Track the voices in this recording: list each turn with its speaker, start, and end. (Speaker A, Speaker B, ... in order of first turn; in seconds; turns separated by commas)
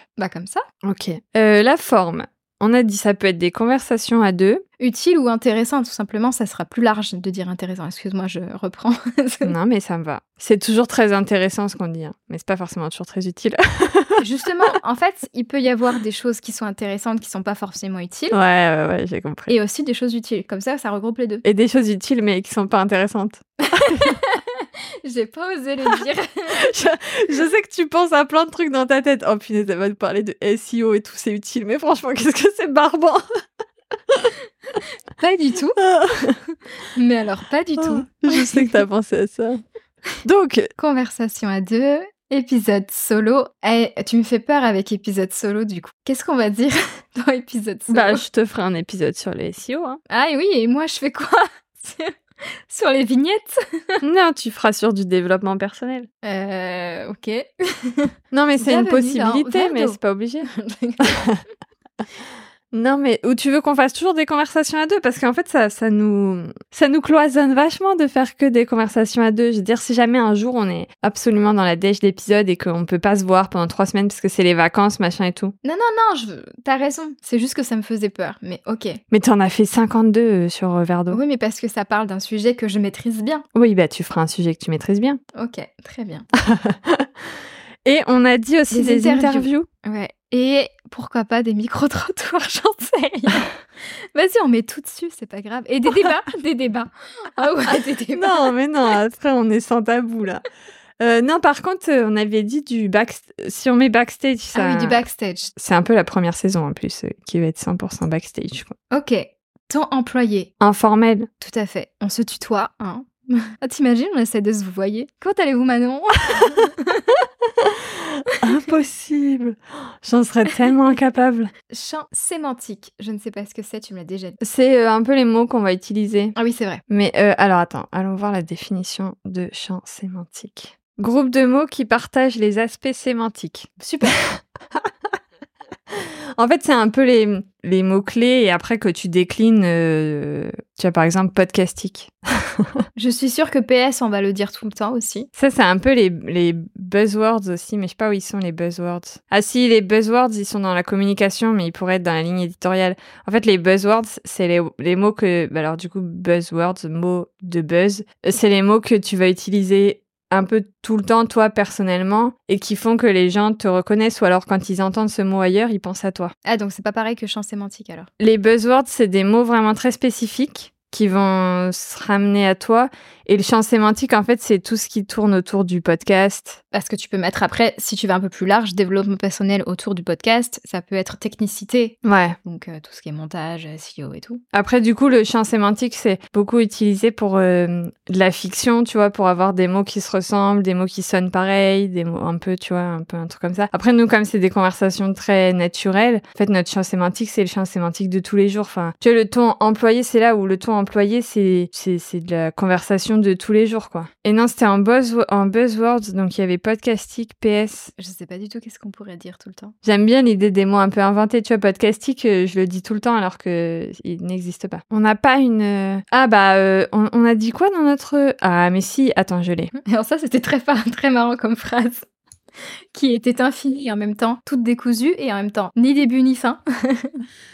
Speaker A: 0.2-0.6, Speaker B: 0.8-4.6, Speaker A: 4.8-9.6, Speaker B: 9.4-14.2, Speaker A: 14.2-18.4, Speaker B: 18.3-19.5, Speaker A: 19.5-21.4, Speaker B: 21.4-24.2, Speaker A: 23.9-26.6, Speaker B: 26.6-33.2, Speaker A: 35.2-35.8, Speaker B: 35.8-36.4, Speaker A: 36.9-38.8, Speaker B: 37.8-39.6, Speaker B: 40.2-40.7, Speaker A: 40.8-48.2, Speaker B: 47.9-50.0, Speaker A: 50.1-52.1, Speaker A: 52.7-54.0, Speaker B: 54.0-56.1, Speaker A: 56.2-61.2, Speaker B: 58.3-60.5, Speaker B: 62.7-75.5, Speaker A: 75.6-79.0, Speaker B: 79.1-81.2, Speaker A: 81.1-83.5, Speaker B: 83.5-85.2, Speaker A: 85.4-86.2, Speaker B: 86.4-87.1, Speaker B: 87.8-89.7, Speaker A: 88.7-93.5, Speaker A: 94.1-98.5, Speaker B: 98.1-100.4, Speaker B: 101.0-105.0, Speaker A: 104.5-105.5, Speaker B: 105.6-108.7, Speaker A: 108.9-110.5, Speaker B: 110.6-111.3, Speaker A: 111.4-116.9, Speaker B: 118.4-121.5, Speaker A: 121.7-124.4, Speaker B: 124.4-126.3, Speaker A: 126.4-126.8, Speaker B: 126.9-134.9, Speaker A: 133.8-134.2, Speaker B: 135.9-142.7, Speaker A: 143.0-145.3, Speaker B: 145.4-166.3, Speaker A: 166.4-168.1, Speaker B: 168.2-176.6, Speaker A: 176.7-184.4, Speaker B: 182.0-182.4, Speaker B: 184.5-207.9, Speaker A: 208.0-209.7, Speaker B: 209.8-219.7, Speaker A: 219.8-222.1, Speaker A: 222.9-227.2